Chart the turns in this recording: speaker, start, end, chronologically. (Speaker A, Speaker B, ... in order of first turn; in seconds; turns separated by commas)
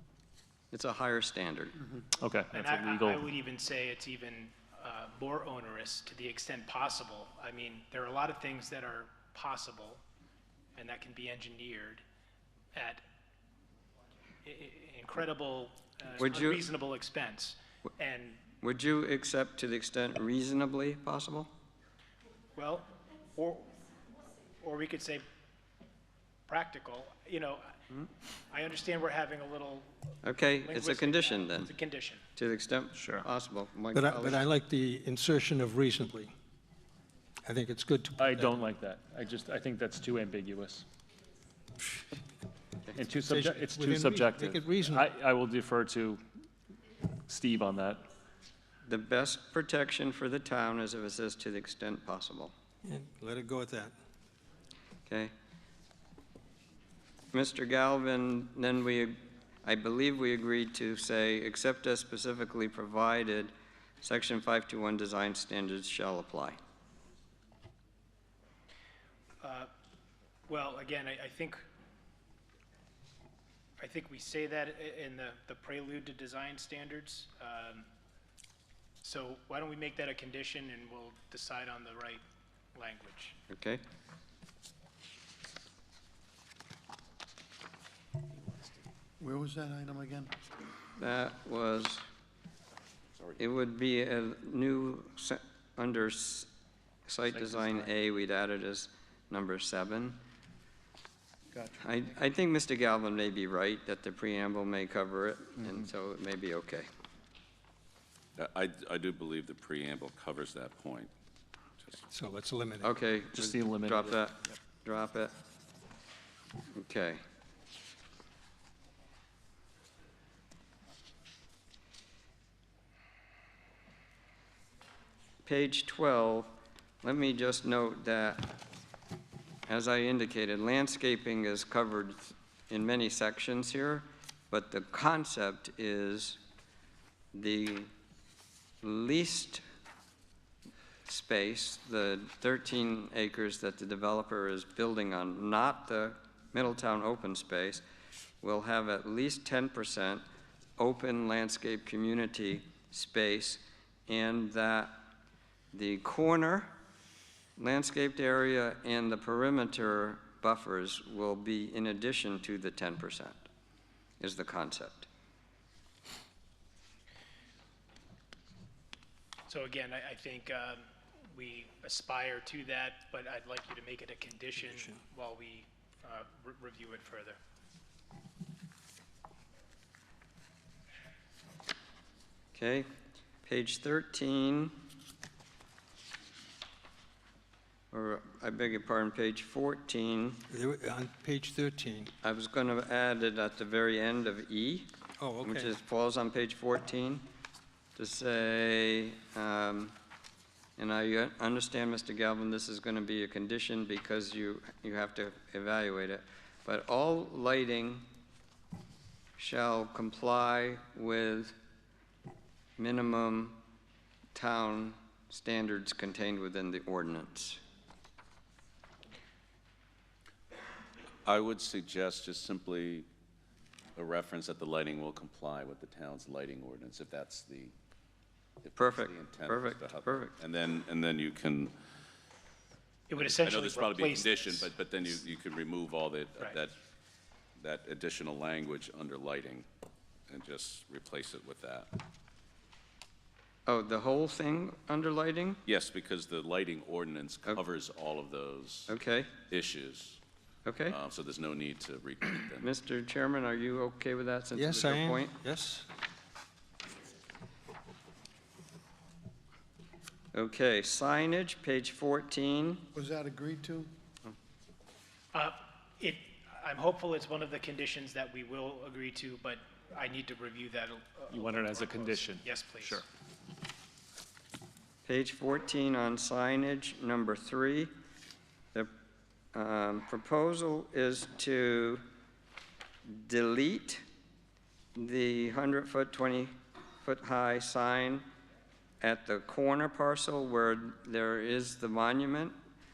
Speaker A: 0.7-1.7, Speaker B: 2.1-3.2, Speaker C: 2.5-10.0, Speaker C: 10.8-12.0, Speaker C: 12.7-13.0, Speaker C: 14.4-18.4, Speaker A: 16.2-16.6, Speaker A: 18.6-21.5, Speaker C: 22.6-23.7, Speaker C: 24.6-25.2, Speaker C: 26.5-27.7, Speaker C: 28.5-29.9, Speaker A: 30.2-31.7, Speaker C: 30.6-32.2, Speaker A: 32.4-34.4, Speaker B: 33.0-33.2, Speaker D: 33.9-36.3, Speaker D: 37.4-38.5, Speaker B: 38.2-40.9, Speaker B: 42.9-46.2, Speaker D: 43.2-45.1, Speaker B: 47.3-48.1, Speaker A: 48.8-52.5, Speaker D: 52.8-53.9, Speaker A: 55.1-55.3, Speaker A: 57.3-63.5, Speaker A: 64.0-66.6, Speaker C: 69.4-69.7, Speaker C: 70.5-71.6, Speaker C: 73.8-77.9, Speaker C: 79.0-82.2, Speaker C: 82.7-83.4, Speaker A: 83.5-83.8, Speaker E: 89.2-90.3, Speaker A: 91.0-92.0, Speaker A: 93.4-96.5, Speaker A: 97.1-100.2, Speaker B: 97.4-97.8, Speaker A: 101.8-106.9, Speaker F: 108.4-111.1, Speaker D: 112.1-112.9, Speaker A: 112.8-115.3, Speaker B: 113.3-114.2, Speaker A: 116.7-117.2, Speaker A: 125.5-128.6, Speaker A: 129.7-136.4, Speaker A: 137.3-137.9, Speaker A: 138.8-139.6, Speaker A: 141.1-147.8, Speaker A: 148.4-150.2, Speaker A: 150.8-155.0, Speaker A: 155.7-156.7, Speaker A: 157.6-163.4, Speaker A: 164.2-165.1, Speaker C: 169.5-177.4, Speaker A: 182.5-182.9, Speaker A: 183.4-184.8, Speaker A: 187.9-190.4, Speaker D: 190.5-192.1, Speaker A: 192.2-194.9, Speaker D: 195.2-195.7, Speaker A: 195.4-197.2, Speaker A: 197.9-199.9, Speaker A: 200.8-208.1, Speaker A: 209.4-211.5, Speaker A: 212.8-213.6, Speaker A: 214.3-217.6, Speaker F: 221.2-223.1, Speaker F: 223.9-227.7, Speaker F: 228.6-231.7, Speaker A: 228.8-230.3, Speaker C: 233.1-234.7, Speaker F: 233.2-236.8, Speaker F: 237.6-239.7, Speaker F: 240.3-242.0, Speaker A: 243.7-245.6, Speaker F: 245.7-248.9, Speaker A: 248.9-249.3, Speaker F: 249.5-250.2, Speaker A: 250.6-251.0, Speaker F: 250.9-252.7, Speaker A: 252.6-255.3, Speaker D: 254.5-255.9, Speaker A: 260.3-262.8, Speaker E: 262.9-263.9, Speaker C: 265.3-273.0, Speaker B: 271.3-273.0, Speaker A: 275.0-277.9, Speaker A: 279.5-282.0, Speaker A: 283.1-284.0, Speaker A: 284.9-288.2, Speaker A: 289.0-292.5